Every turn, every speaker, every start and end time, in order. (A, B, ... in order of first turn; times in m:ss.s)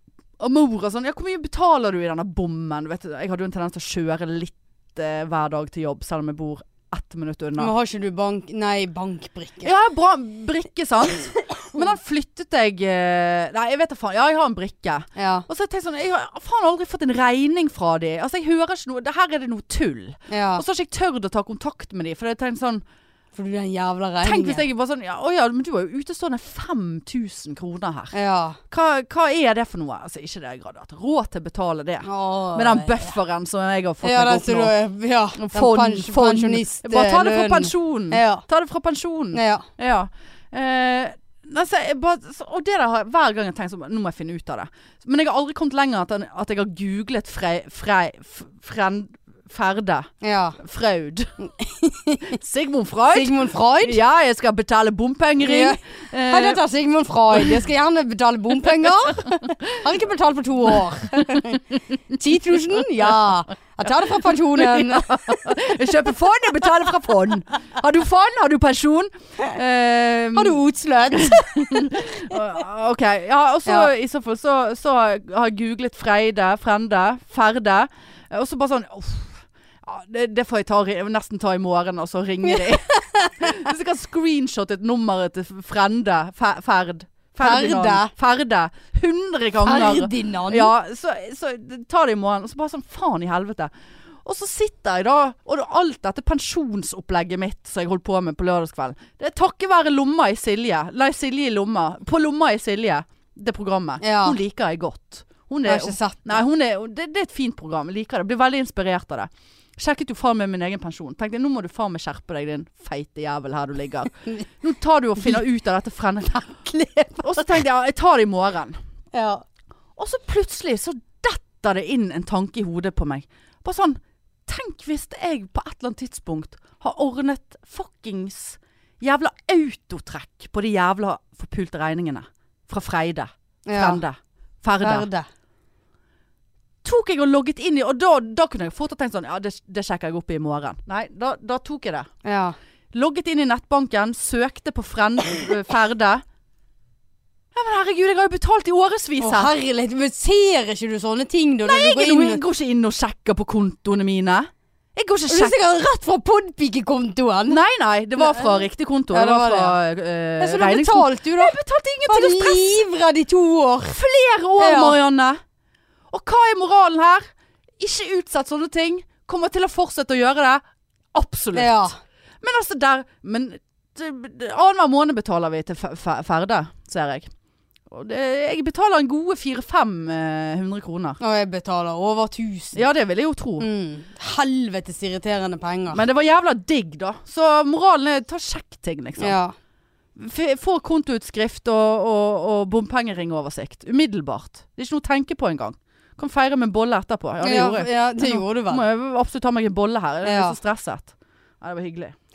0:00.4-0:07.7 A
0:07.6-0:09.7 B
0:09.6-0:22.8 A
0:15.2-0:15.5 B
0:20.3-0:20.6 B
0:23.3-0:24.6 B
0:24.2-0:28.1 A
0:28.1-0:28.6 B
0:28.7-0:34.7 A
0:32.0-0:33.1 B
0:34.0-0:38.4 B
0:35.4-0:51.3 A
0:39.3-0:39.6 B
0:50.2-0:50.6 B
0:51.6-0:52.3 B
0:52.3-0:56.6 A
0:53.1-0:54.0 B
0:55.4-1:01.6 B
0:57.3-0:57.6 A
1:01.2-1:01.5 A
1:02.1-1:05.4 B
1:03.8-1:10.6 A
1:10.3-1:11.8 B
1:11.2-1:33.7 A
1:22.5-1:23.4 B
1:27.4-1:28.1 B
1:29.6-1:30.7 B
1:34.2-1:56.7 A
1:44.0-1:44.4 B
1:45.6-1:46.4 B
1:56.7-1:57.5 B
1:57.2-1:58.8 A
1:59.1-1:59.4 B
2:00.0-2:15.1 A
2:13.6-2:14.0 B
2:14.8-2:15.3 B
2:16.8-2:22.1 A
2:22.2-2:22.6 B
2:22.9-2:26.2 A
2:27.5-2:29.5 A
2:29.2-2:32.4 B
2:31.6-2:35.6 A
2:35.3-2:37.6 B
2:37.5-2:42.7 A
2:38.2-2:39.8 B
2:40.4-2:41.5 B
2:42.1-2:44.0 B
2:43.9-2:45.4 A
2:44.6-2:45.0 B
2:46.1-2:57.3 A
2:51.5-2:52.0 B
2:57.9-3:01.2 A
3:01.2-3:02.8 B
3:02.7-3:03.7 A
3:03.6-3:06.0 B
3:05.9-3:09.4 A
3:09.2-3:09.5 B
3:10.2-3:22.1 A
3:17.4-3:18.8 B
3:20.2-3:20.6 B